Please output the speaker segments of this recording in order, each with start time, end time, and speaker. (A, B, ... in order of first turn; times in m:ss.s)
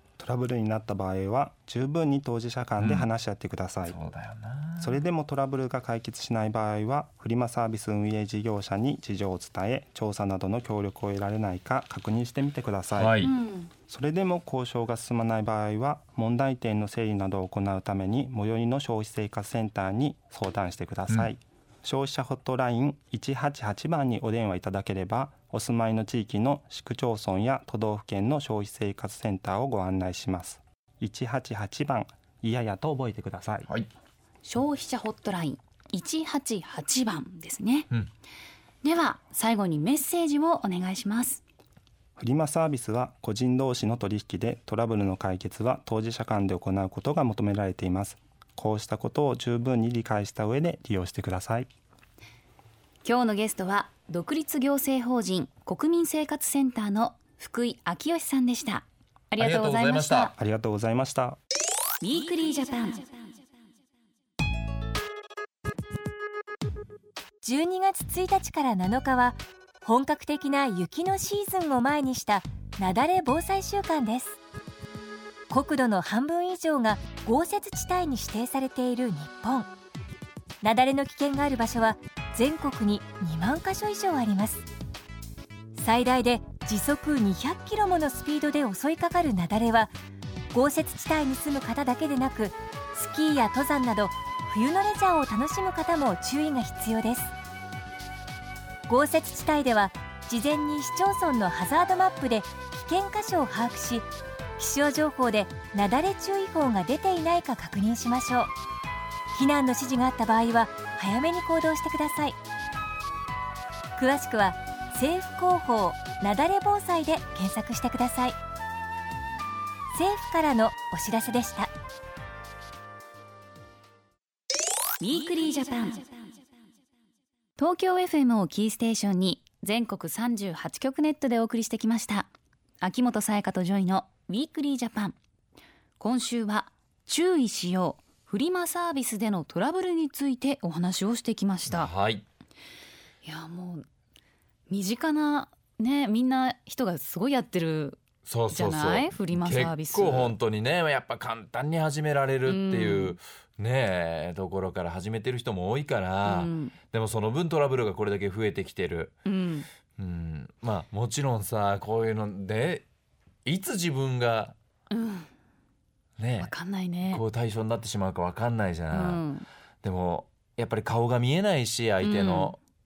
0:00.2-0:04.0 A
0:02.8-0:03.1 B
0:03.9-0:05.0 B
0:04.8-0:13.2 A
0:12.9-0:13.3 B
0:13.2-0:13.7 C
0:13.9-0:33.7 A
0:34.4-0:37.9 C
0:38.8-0:41.4 C
0:42.2-0:51.7 A
0:53.0-1:00.3 C
0:59.4-1:00.3 B
1:00.4-1:01.4 A
1:02.0-1:03.1 C
1:07.4-1:14.4 D
1:15.5-1:19.7 D
1:20.6-1:24.7 D
1:25.8-1:29.9 D
1:30.5-1:37.3 D
1:38.9-1:48.5 D
1:49.3-1:52.4 D
1:54.0-1:58.4 D
1:59.9-2:01.7 D
2:05.0-2:06.1 C
2:07.6-2:12.3 C
2:12.8-2:15.2 C
2:16.0-2:21.9 C
2:21.7-2:22.2 B
2:23.2-2:23.8 C
2:24.7-2:30.4 C
2:28.3-2:39.2 B
2:32.4-2:33.2 C
2:36.2-2:36.7 C
2:39.2-2:39.7 C
2:40.0-2:42.9 B
2:43.4-2:44.6 B
2:44.9-2:45.3 C
2:46.2-2:46.5 B
2:46.4-2:47.2 C
2:47.0-2:49.2 B
2:48.9-2:49.5 C
2:49.8-2:52.6 B
2:52.0-2:52.6 C